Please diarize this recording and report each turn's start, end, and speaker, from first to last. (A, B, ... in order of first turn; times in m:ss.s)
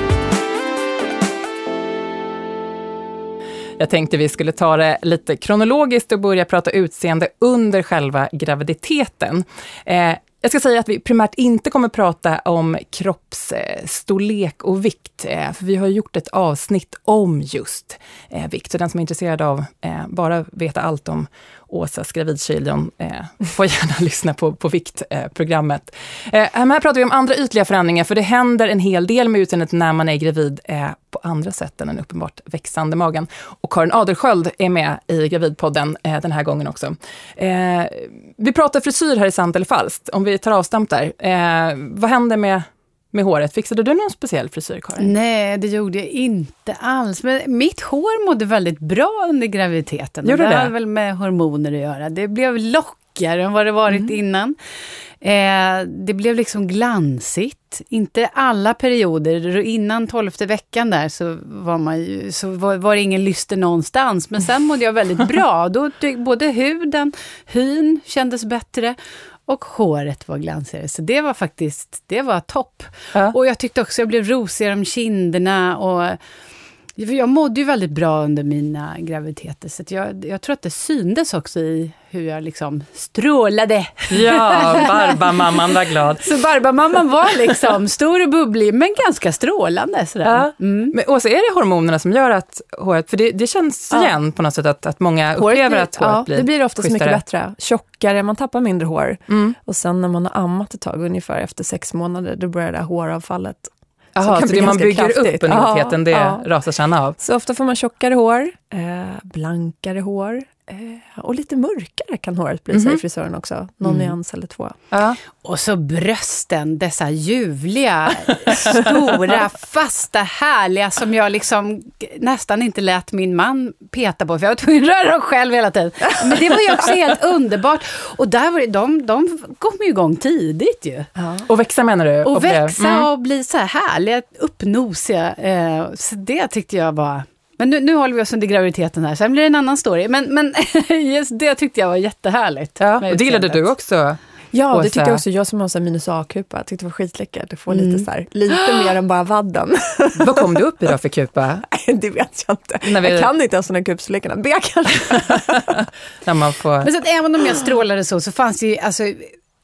0:03.8-0:45.1 A
0:45.0-0:54.6 B
0:50.2-0:50.7 A
0:55.2-1:09.0 B
1:09.5-1:16.2 B
1:17.0-1:25.7 B
1:24.1-1:26.3 A
1:26.2-1:30.9 B
1:30.2-1:37.2 A
1:35.3-1:46.4 C
1:39.3-1:39.6 A
1:44.2-1:47.2 A
1:47.2-1:54.8 C
1:52.7-1:53.0 A
1:54.9-1:55.2 A
1:55.4-2:11.1 B
2:11.2-2:11.4 C
2:11.5-2:13.1 A
2:12.2-2:23.7 B
2:22.8-2:24.2 A
2:24.5-2:30.6 C
2:24.7-2:25.2 A
2:27.7-2:28.9 B
2:30.2-2:31.6 A
2:31.6-2:35.8 C
2:32.8-2:33.3 A
2:35.1-2:36.9 A
2:36.8-2:39.3 B